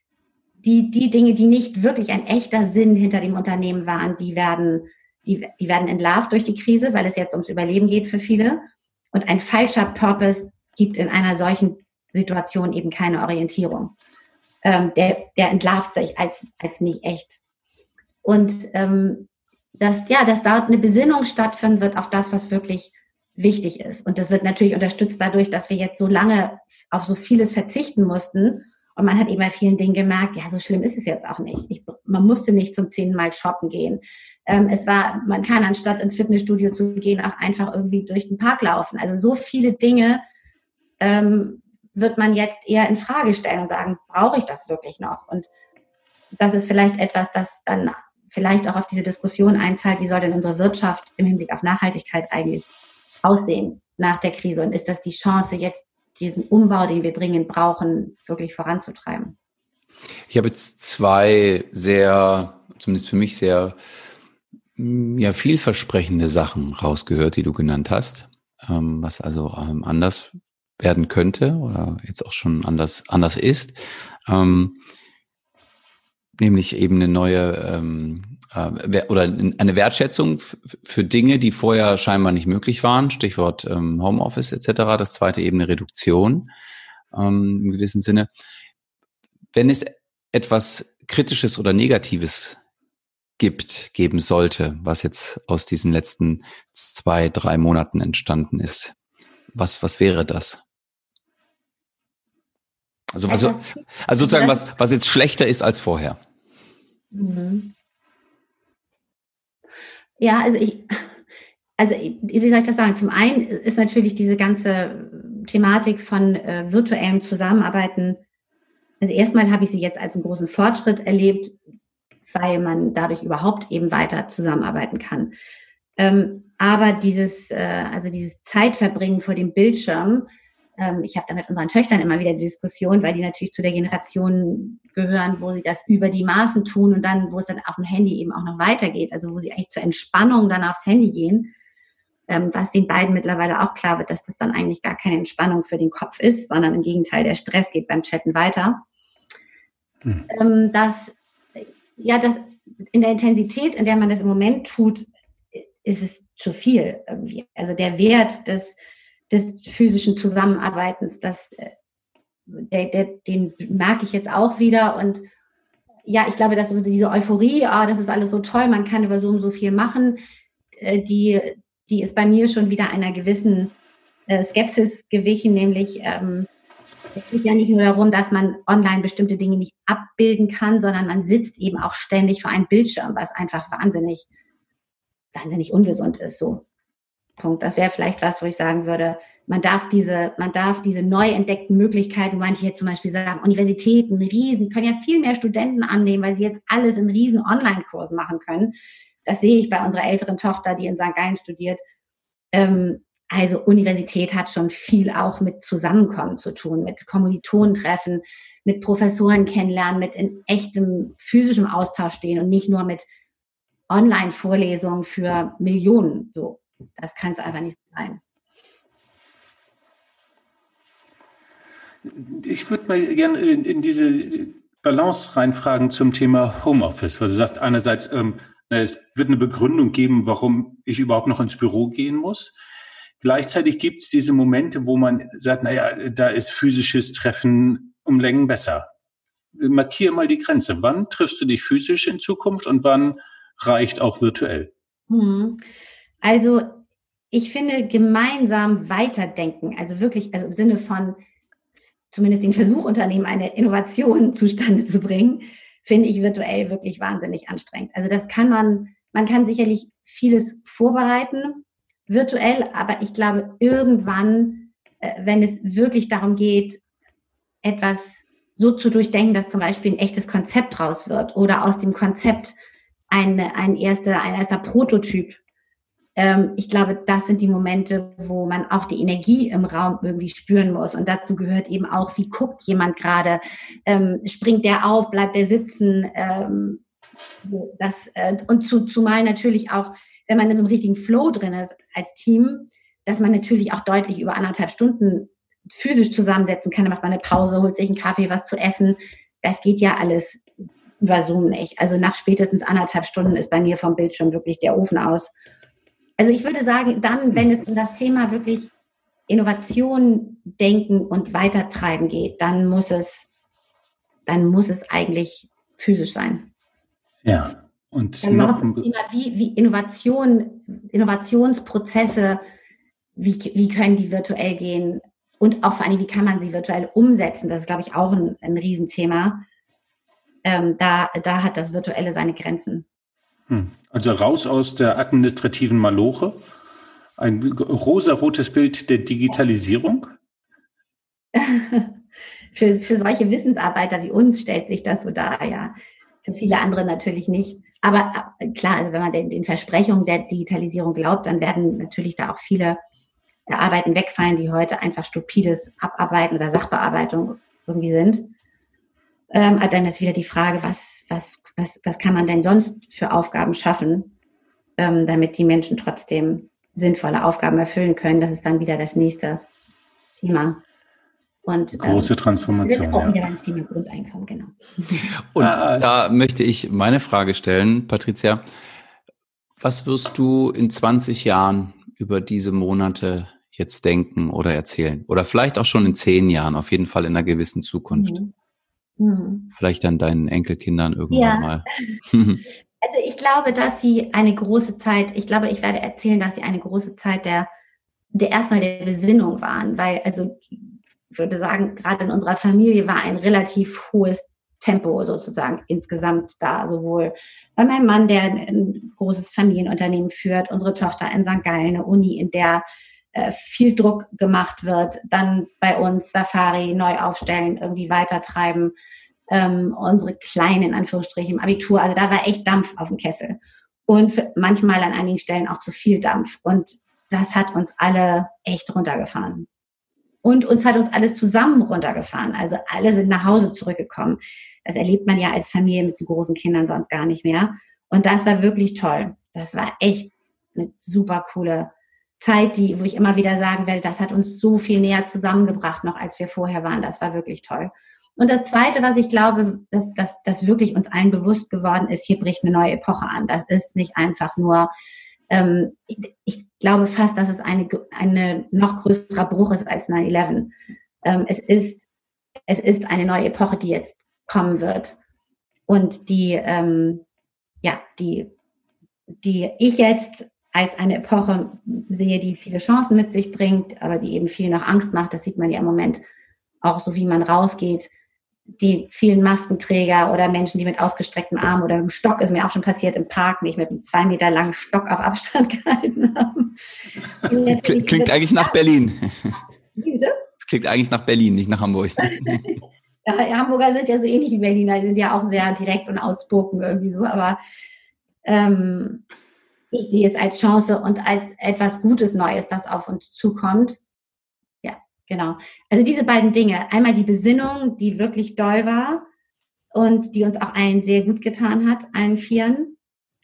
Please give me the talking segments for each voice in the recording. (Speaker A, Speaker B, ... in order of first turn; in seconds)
Speaker A: 0.6-13.9, 14.6-17.4, 18.2-40.2, 41.0-45.5, 46.4-52.7, 53.2-59.4, 103.3-104.6, 107.1-107.7, 110.2-111.1, 111.8-118.2, 119.0-121.6, 122.3-125.3, 126.0-141.5, 142.3-148.8, 150.3-158.8, 159.3-161.7, 162.5-165.3, 166.1-170.2, 170.8-173.8, 174.3-176.5, 177.2-184.3, 185.3-186.7, 187.4-201.8, 202.5-213.1, 213.9-218.2, 245.1-245.6, 246.2-251.2, 252.1-266.8, 267.6-272.6, 273.1-275.4, 276.2-286.8, 287.4-300.4, 301.0-305.3, 306.2-308.7, 309.3-313.3, 314.3-316.5, 318.2-322.4, 323.2-329.4, 330.4-332.9, 341.3-342.0, 342.5-352.8, 353.5-358.3, 359.3-364.1, 364.8-369.4, 370.2-370.6, 371.5-374.5, 387.9-388.3, 389.0-389.5, 391.1-391.9, 392.8-397.5, 398.1-412.6, 413.1-418.7, 419.3-429.5, 430.2-454.7, 455.3-460.5, 461.0-461.9, 462.5-465.0, 465.7-467.0, 467.6-468.3, 469.2-476.0, 476.6-477.9, 478.6-486.6, 487.2-488.6, 489.8-490.1, 492.1-497.4, 498.2-499.0, 499.7-503.8, 504.6-509.1, 509.7-512.8
Speaker B: 60.3-63.8, 64.8-74.8, 76.4-86.5, 87.1-88.3, 89.5-92.6, 93.4-98.9, 99.5-100.6, 103.1-106.2, 375.3-378.4, 379.6-388.2, 389.6-392.4, 487.4-489.4, 490.4-492.4
Speaker C: 222.1-232.5, 233.2-238.9, 239.5-244.7, 317.2-318.9, 333.5-336.4, 337.2-340.1, 371.7-373.2, 375.4-375.9